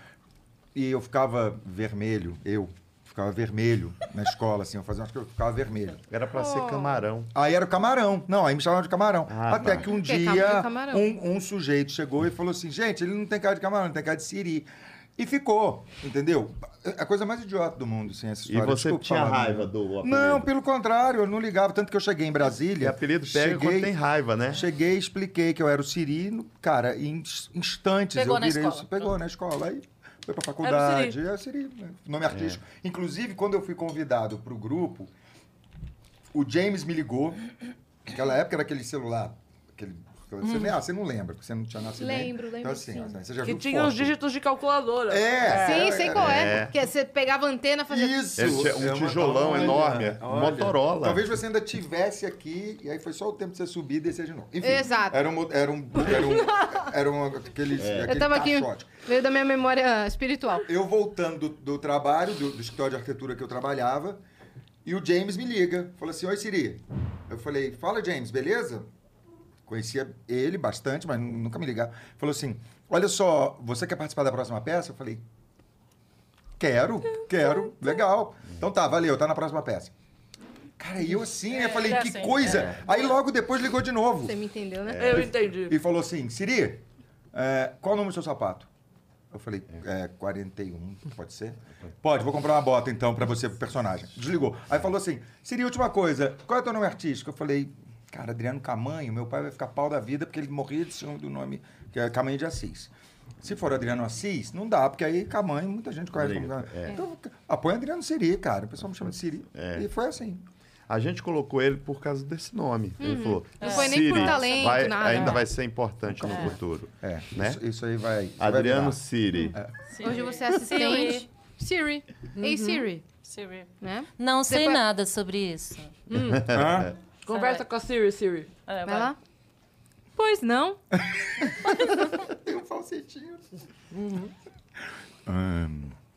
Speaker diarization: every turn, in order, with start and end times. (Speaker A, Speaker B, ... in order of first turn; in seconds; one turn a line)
Speaker A: 0.7-6.0
Speaker B: 6.1-7.3
Speaker C: 6.3-7.0
Speaker A: 7.3-23.9
Speaker B: 9.3-9.9
Speaker C: 9.9-11.1
Speaker B: 18.5-20.4
Speaker B: 22.8-24.6
Speaker A: 24.5-35.1
Speaker D: 28.1-29.1
Speaker E: 30.6-31.1
Speaker B: 32.3-32.6
Speaker A: 36.3-37.4
Speaker A: 38.0-44.1
Speaker C: 42.0-43.1
Speaker E: 43.4-46.0
Speaker A: 45.1-46.6
Speaker C: 45.5-48.5
Speaker B: 46.0-46.7
Speaker A: 47.9-59.0
Speaker B: 48.4-51.2
Speaker C: 54.6-55.3
Speaker C: 55.9-56.9
Speaker B: 57.8-58.1
Speaker C: 58.1-60.6
Speaker A: 60.6-64.2
Speaker A: 64.8-68.9
Speaker A: 69.7-75.2
Speaker A: 76.6-79.9
Speaker A: 80.8-84.3
Speaker D: 81.5-82.9
Speaker B: 82.5-82.8
Speaker C: 84.2-85.2
Speaker B: 84.9-85.3
Speaker E: 85.0-85.8
Speaker A: 85.6-88.7
Speaker A: 89.3-110.4
Speaker B: 106.1-107.0
Speaker B: 109.5-109.8
Speaker B: 110.9-117.6
Speaker C: 113.0-115.5
Speaker D: 113.6-115.3
Speaker A: 116.1-119.0
Speaker B: 118.4-119.6
Speaker C: 119.4-123.0
Speaker D: 119.9-121.2
Speaker E: 122.3-122.9
Speaker D: 123.2-126.0
Speaker C: 123.8-124.8
Speaker C: 126.1-126.5
Speaker B: 126.2-126.9
Speaker A: 126.5-126.9
Speaker E: 127.2-128.5
Speaker D: 127.3-127.6
Speaker D: 128.7-129.1
Speaker C: 128.8-129.2
Speaker C: 130.2-130.8
Speaker A: 131.0-131.4
Speaker A: 132.3-133.5
Speaker E: 133.9-134.3
Speaker A: 135.2-135.9